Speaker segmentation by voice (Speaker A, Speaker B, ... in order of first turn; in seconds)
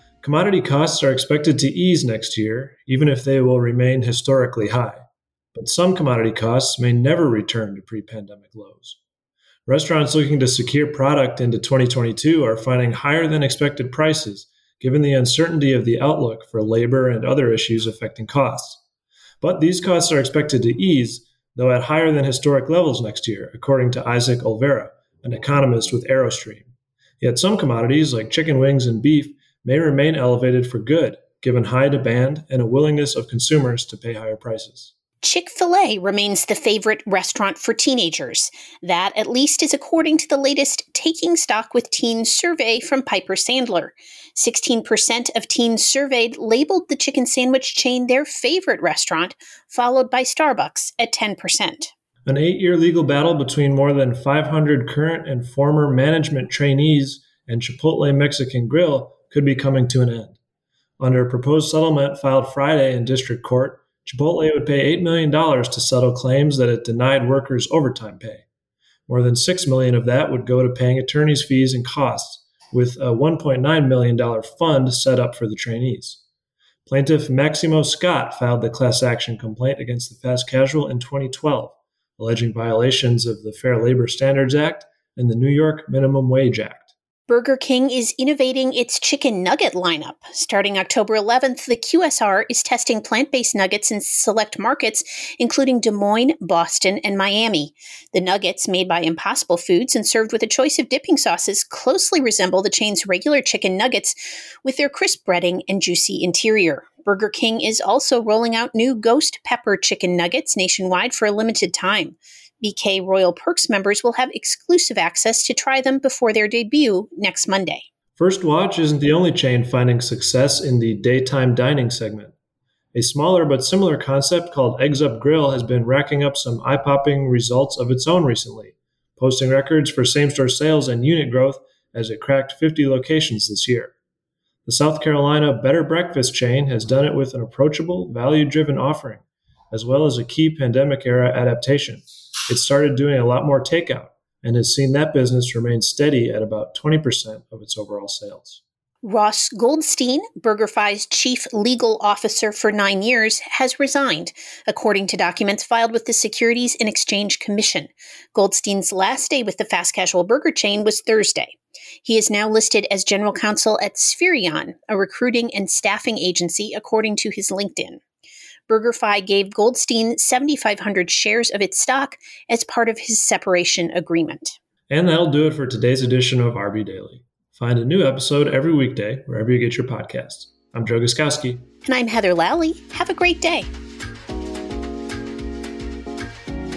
Speaker A: 0.2-5.0, 5.5-9.0, 9.7-18.8, 19.4-26.7, 27.2-34.9, 52.2-60.4, 61.0-68.5, 69.1-76.2, 76.9-86.9, 118.2-122.3, 122.9-133.9, 134.7-148.6, 174.9-181.7
Speaker B: 35.2-51.9, 87.3-117.9, 149.0-168.0, 168.7-174.6, 181.8-183.7